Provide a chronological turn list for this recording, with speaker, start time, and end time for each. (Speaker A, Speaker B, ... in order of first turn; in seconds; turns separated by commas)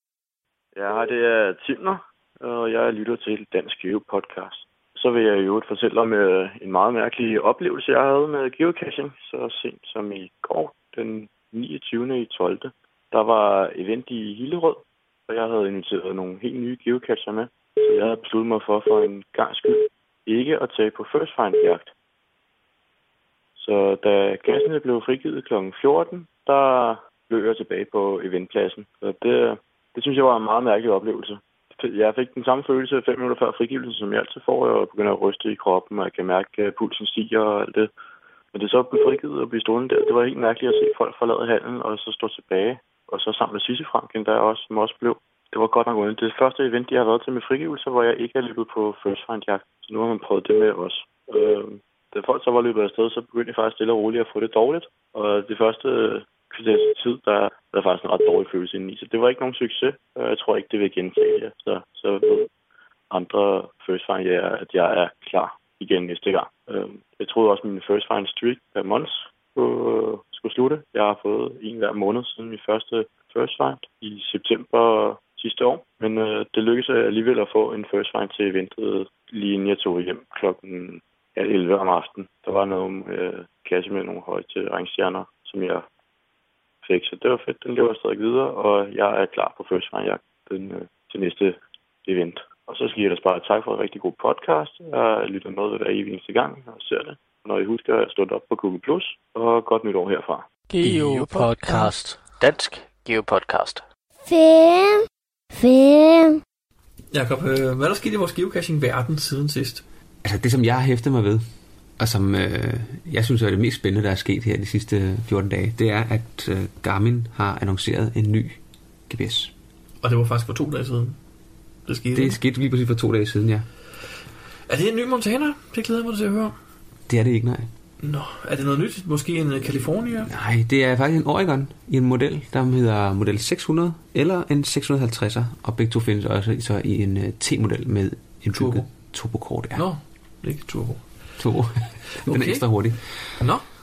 Speaker A: 0.8-21.9, Speaker A: 23.6-37.9, Speaker A: 38.5-62.5, Speaker A: 63.1-85.8, Speaker A: 86.8-100.5, Speaker B: 100.7-103.8, Speaker C: 104.2-106.4, Speaker D: 107.1-109.8, Speaker E: 110.2-111.4, Speaker E: 112.0-119.5, Speaker D: 120.0-121.2, Speaker D: 121.9-122.4, Speaker E: 122.1-123.7, Speaker D: 124.7-126.5, Speaker E: 127.1-127.7, Speaker D: 128.0-130.3, Speaker E: 130.2-139.8, Speaker D: 138.5-138.9, Speaker D: 139.8-141.0, Speaker E: 141.4-143.4, Speaker D: 142.2-142.7, Speaker D: 143.4-143.6